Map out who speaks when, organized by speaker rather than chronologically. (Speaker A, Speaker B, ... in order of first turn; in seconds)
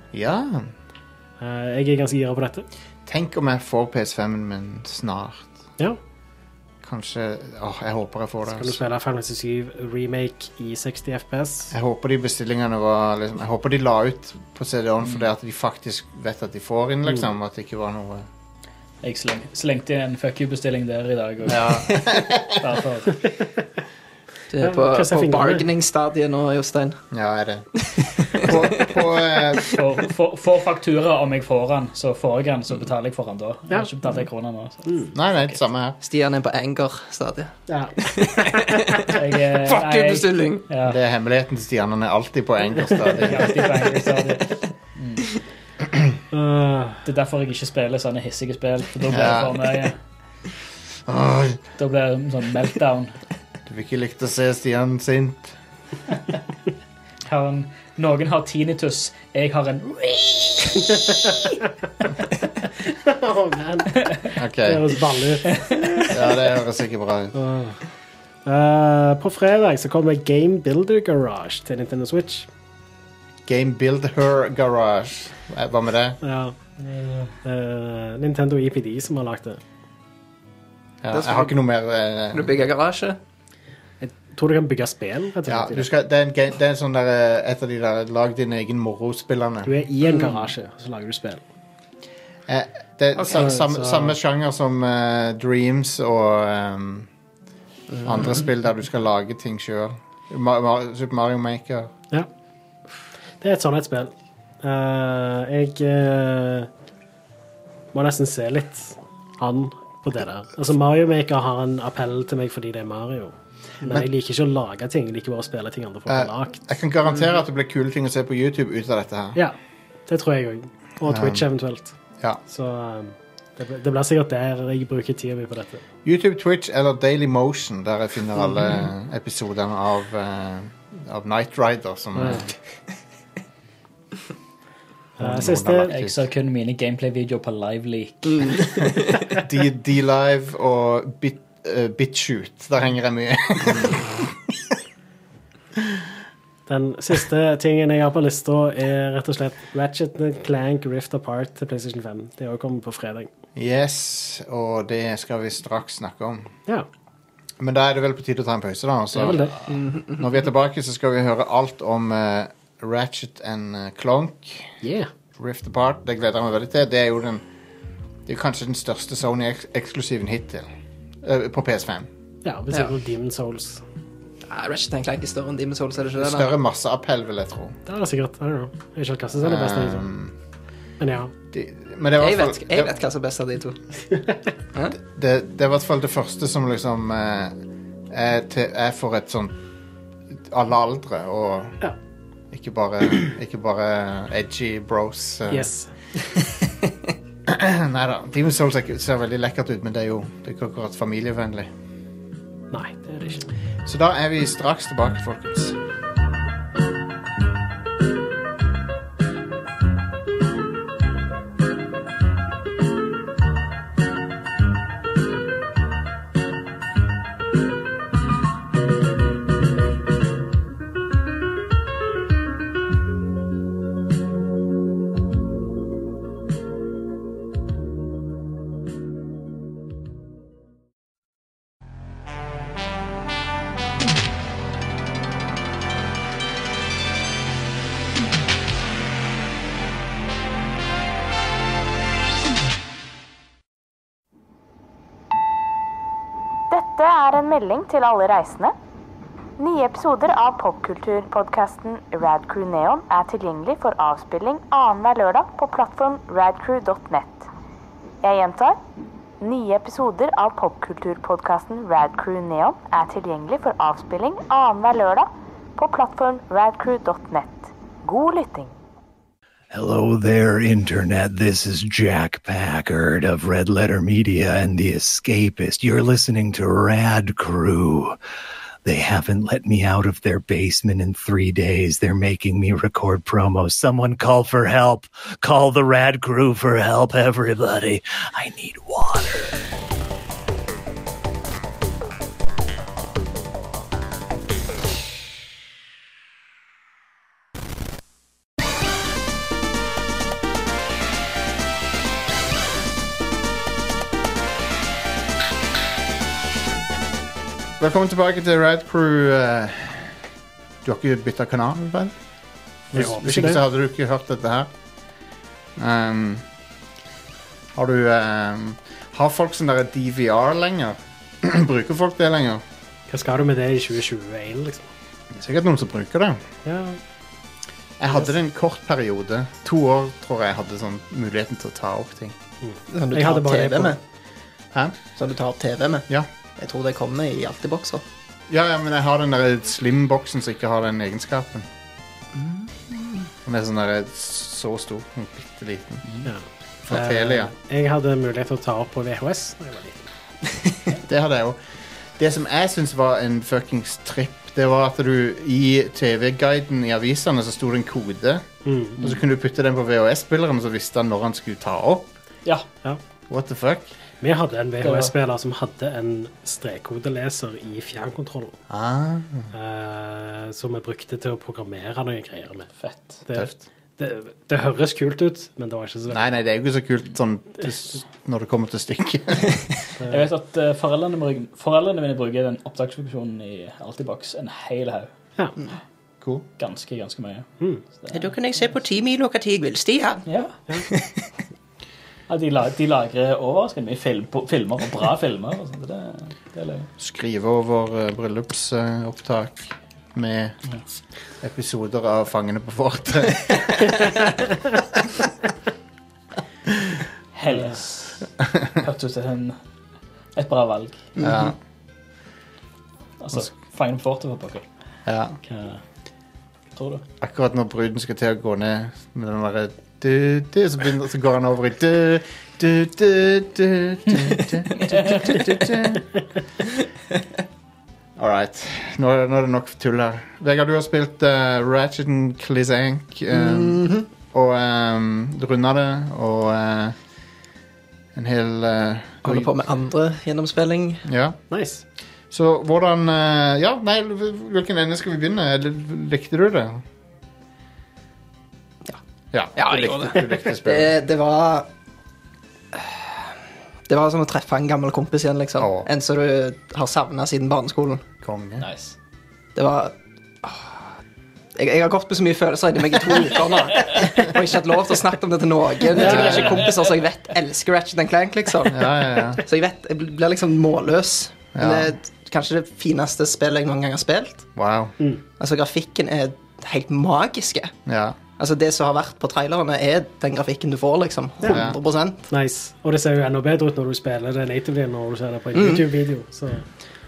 Speaker A: 0.1-0.7, 3.1-5.5, 6.8-8.8, 11.7-18.3, 21.4-22.6, 27.1-29.8, 35.1-36.0, 40.8-43.7, 49.1-49.6, 51.1-51.6, 53.7-55.6, 64.4-64.9, 66.1-67.3, 73.5-76.2, 81.0-82.6, 85.5-89.7, 92.5-97.1, 98.0-101.9, 116.1-119.4, 121.1-121.5, 126.0-132.5, 135.2-136.2, 139.3-144.8, 153.6-156.5, 157.6-159.5, 160.2-164.8, 165.4-167.4, 168.3-170.7, 171.2-172.1, 176.2-177.8, 179.4-180.3, 181.5-182.9, 184.9-187.6, 188.1-189.6, 190.4-191.8, 192.5-195.7, 197.5-201.7, 203.8-205.8, 307.8-310.2, 310.8-312.1, 312.9-314.7, 315.8-316.5, 317.8-322.6, 325.3-326.4, 328.0-332.4, 338.5-341.7, 343.4-346.1, 346.8-347.5, 351.0-351.6, 352.2-358.4, 359.0-362.1, 363.3-363.9, 368.7-369.5, 376.1-379.7, 386.2-386.5, 397.0-400.6, 401.4-404.4, 411.2-411.6, 415.1-415.4, 417.2-426.1, 428.2-437.0, 438.1-439.5, 441.1-441.4, 442.3-446.8, 449.3-451.0, 455.6-455.9, 458.2-458.7, 466.0-466.5, 468.7-469.4, 471.6-471.9, 474.6-474.9, 477.9-478.2, 481.5-481.8
Speaker B: 1.4-2.7, 8.5-11.7, 24.6-25.6, 37.7-39.1, 46.3-47.0, 61.1-61.4, 62.9-66.1, 67.3-67.8, 68.5-72.5, 76.2-76.6, 77.4-79.6, 84.0-85.9, 89.7-91.4, 93.2-94.2, 103.4-106.7, 107.9-116.7, 120.1-122.0, 122.5-125.8, 132.2-132.5, 135.2-135.9, 146.7-153.3, 159.2-159.6, 164.8-165.1, 172.4-173.8, 177.9-180.1, 181.0-181.3, 195.5-195.9, 202.7-203.5, 312.9-313.6, 323.1-324.9, 326.6-327.0, 332.6-334.0, 346.2-350.1, 358.6-359.0, 364.2-368.6, 369.5-372.7, 373.3-376.3, 407.5-407.8, 441.5-441.8, 466.0-466.4, 482.3-486.7
Speaker C: 19.0-23.3, 29.6-35.6, 39.1-41.0, 43.2-45.4, 47.0-50.0, 51.8-53.1, 57.3-61.5, 65.5-66.1, 135.9-138.9, 364.8-365.1, 372.8-373.2, 380.1-385.1, 386.6-388.3, 390.3-390.5, 392.3-396.9, 407.3-409.6, 410.4-411.1, 413.2-414.6, 415.5-415.8, 416.8-417.0, 458.6-458.9, 466.1-466.8
Speaker D: 24.5-27.0, 27.9-29.0, 36.0-40.6, 81.1-81.5, 82.3-83.2, 97.9-98.4, 138.3-139.2, 159.7-160.3, 174.5-176.5, 182.2-183.8, 332.9-334.0, 335.2-338.0, 342.4-343.2, 388.1-390.2, 390.8-391.2, 411.2-411.6, 433.3-434.1, 439.2-441.0, 449.6-451.7, 452.8-453.2, 453.9-458.0, 459.6-460.8, 461.6-474.5, 475.4-477.7, 478.4-482.3, 485.6-485.9
Speaker E: 246.7-248.7, 249.6-257.5, 258.2-258.8, 259.4-268.8
Speaker F: 269.7-278.2, 278.8-289.6